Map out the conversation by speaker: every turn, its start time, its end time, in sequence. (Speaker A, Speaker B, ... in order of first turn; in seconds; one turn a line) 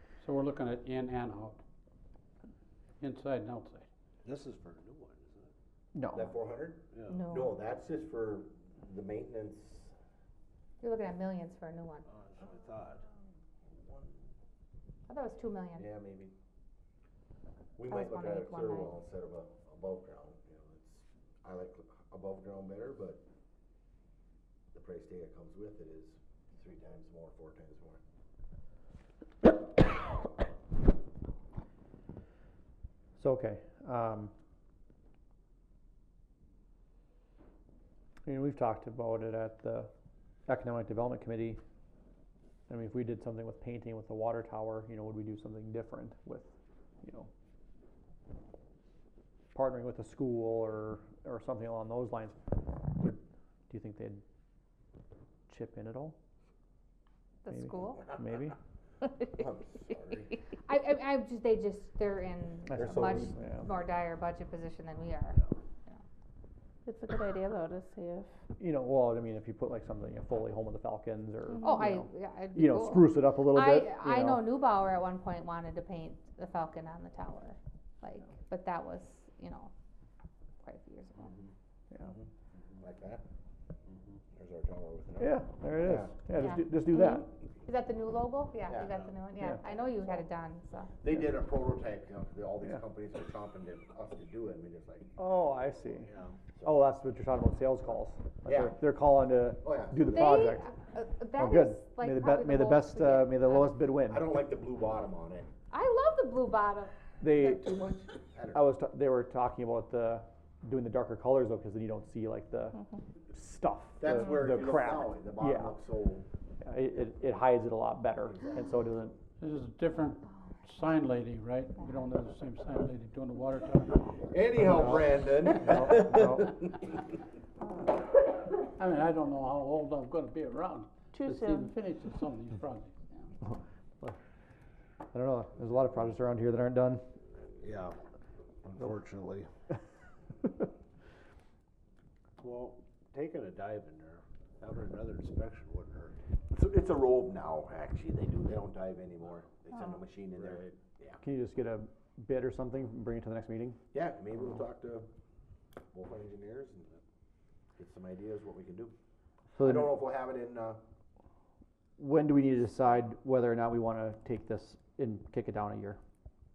Speaker A: 0.2-1.6
Speaker A: 3.0-3.9
Speaker B: 4.2-5.5
Speaker C: 6.0-6.3
Speaker D: 6.1-9.9
Speaker B: 6.9-7.3
Speaker E: 10.8-12.1
Speaker B: 12.1-13.0
Speaker D: 13.7-14.1
Speaker E: 15.1-15.9
Speaker D: 15.8-16.3
Speaker D: 17.8-23.2
Speaker E: 17.9-18.9
Speaker D: 24.7-28.0
Speaker C: 33.2-34.3
Speaker C: 38.2-39.9
Speaker C: 40.5-41.6
Speaker C: 42.7-47.3
Speaker C: 49.5-52.4
Speaker C: 52.9-54.2
Speaker C: 55.5-56.2
Speaker E: 57.4-58.1
Speaker C: 57.5-58.6
Speaker D: 59.3-60.3
Speaker E: 60.6-66.0
Speaker C: 62.7-63.7
Speaker D: 62.8-63.3
Speaker F: 66.9-68.3
Speaker C: 68.6-74.5
Speaker E: 71.6-79.7
Speaker E: 80.6-81.3
Speaker D: 82.8-83.2
Speaker D: 84.3-86.1
Speaker C: 85.2-87.3
Speaker E: 86.4-87.1
Speaker E: 87.7-91.0
Speaker D: 88.7-89.0
Speaker D: 89.7-90.2
Speaker D: 91.0-95.1
Speaker C: 95.2-96.1
Speaker B: 96.1-96.3
Speaker C: 96.6-100.7
Speaker D: 98.5-98.8
Speaker D: 99.6-100.6
Speaker E: 100.1-103.8
Speaker C: 101.4-104.3
Speaker D: 104.1-105.5
Speaker E: 105.7-106.9
Speaker C: 107.2-107.8
Speaker D: 107.4-108.6
Speaker C: 108.5-115.8
Speaker D: 114.0-116.2
Speaker C: 116.6-119.2
Speaker A: 119.4-124.1
Speaker D: 124.3-126.9
Speaker C: 124.6-126.5
Speaker A: 128.6-133.3
Speaker F: 131.1-131.7
Speaker C: 133.5-134.2
Speaker C: 135.1-137.1
Speaker B: 137.6-138.0
Speaker B: 138.7-139.5
Speaker B: 142.4-146.2
Speaker D: 146.5-151.2
Speaker B: 150.3-150.8
Speaker C: 151.2-153.8
Speaker D: 153.9-155.1
Speaker D: 155.9-156.9
Speaker D: 157.8-159.0
Speaker D: 159.5-160.8
Speaker C: 159.6-160.0
Speaker C: 162.0-166.0